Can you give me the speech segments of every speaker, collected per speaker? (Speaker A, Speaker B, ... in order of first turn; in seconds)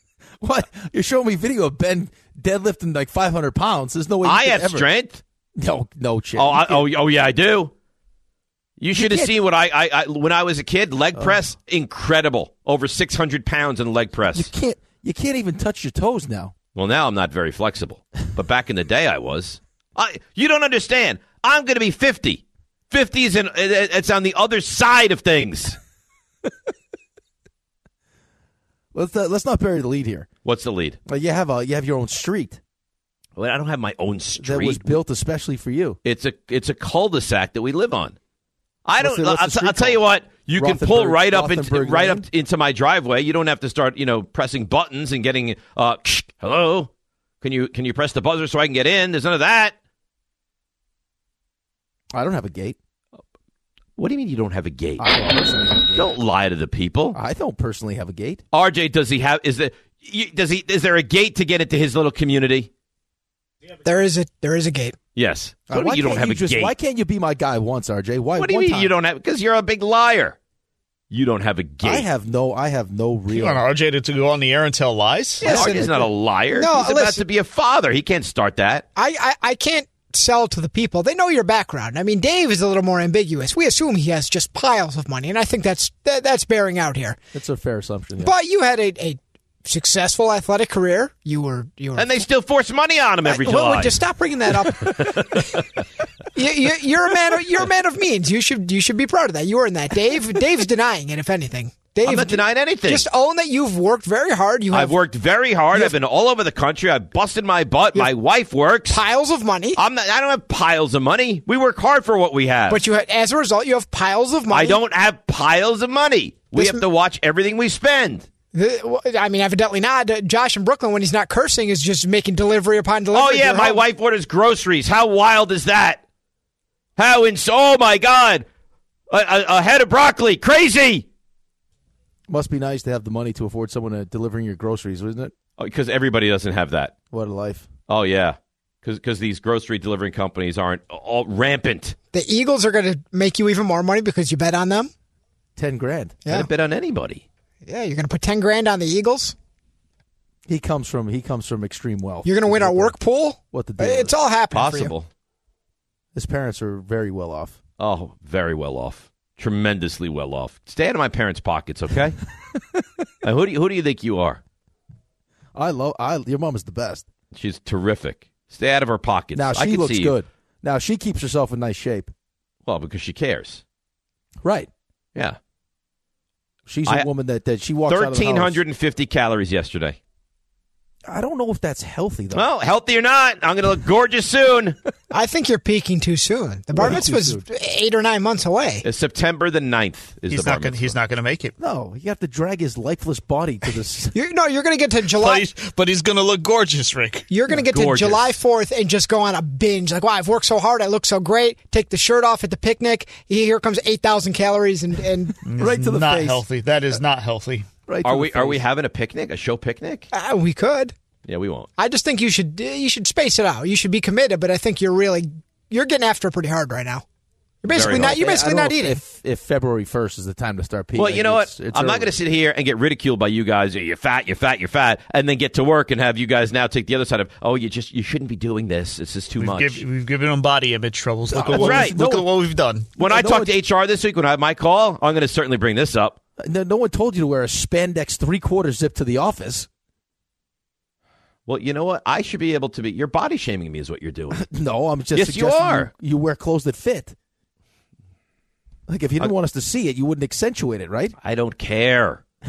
Speaker A: 0.4-4.9, 5.6-6.8, 8.9-9.3, 11.2-11.4, 14.3-16.5, 28.9-30.3, 31.1-32.6, 34.4-36.0, 39.0-40.0, 40.5-42.3, 52.1-52.8, 55.0-56.1, 57.1-58.4, 65.7-68.9, 71.8-73.6, 75.4-75.9, 87.3-88.3, 132.3-135.3, 137.1-137.7, 145.6-146.2, 150.5-153.0, 153.5-154.1, 156.1-157.6, 165.6-167.1, 169.3-172.1, 174.4-174.7, 176.7-178.6, 181.1-182.5, 186.8-187.4, 191.6-194.1, 205.6-206.4, 207.9-208.6, 217.9-222.1, 231.3-232.3, 233.0-233.5, 236.4-239.7, 244.3-247.2, 248.9-251.2
Speaker B: 4.2-5.2, 6.4-7.7, 8.8-14.5, 16.8-25.8, 30.4-31.0, 33.4-35.0, 36.0-38.2, 38.9-46.9, 47.4-49.8, 54.0-55.1, 56.0-57.2, 58.5-62.7, 65.2-66.7, 68.4-70.4, 71.1-72.1, 75.4-78.8, 92.0-94.0, 94.8-95.8, 102.0-103.1, 104.7-109.0, 109.8-112.8, 114.5-118.3, 123.1-126.0, 127.0-128.4, 129.1-131.1, 135.6-136.9, 137.9-141.9, 146.3-147.2, 154.5-155.1, 157.8-162.2, 163.2-164.4, 167.3-170.2, 172.7-173.6, 177.9-180.0, 182.3-184.8, 188.8-191.0, 197.6-198.4, 208.0-210.1, 211.2-211.7, 217.7-218.2, 221.0-229.8, 231.5-232.0, 233.0-236.2, 241.5-244.4, 245.2-245.9, 251.2-252.2
Speaker C: 63.8-65.0, 75.4-77.2, 79.0-87.2, 88.2-92.1, 93.2-95.0, 96.3-105.0, 108.9-109.8, 112.7-114.8, 116.5-116.8, 118.5-123.8, 142.1-144.9, 147.7-149.3, 152.2-154.9, 185.1-188.8, 194.1-195.5, 197.3-205.4, 210.1-210.9, 211.8-217.0, 217.6-219.0
Speaker D: 73.3-75.5, 190.3-191.6, 195.1-197.3, 205.4-207.7, 229.4-232.9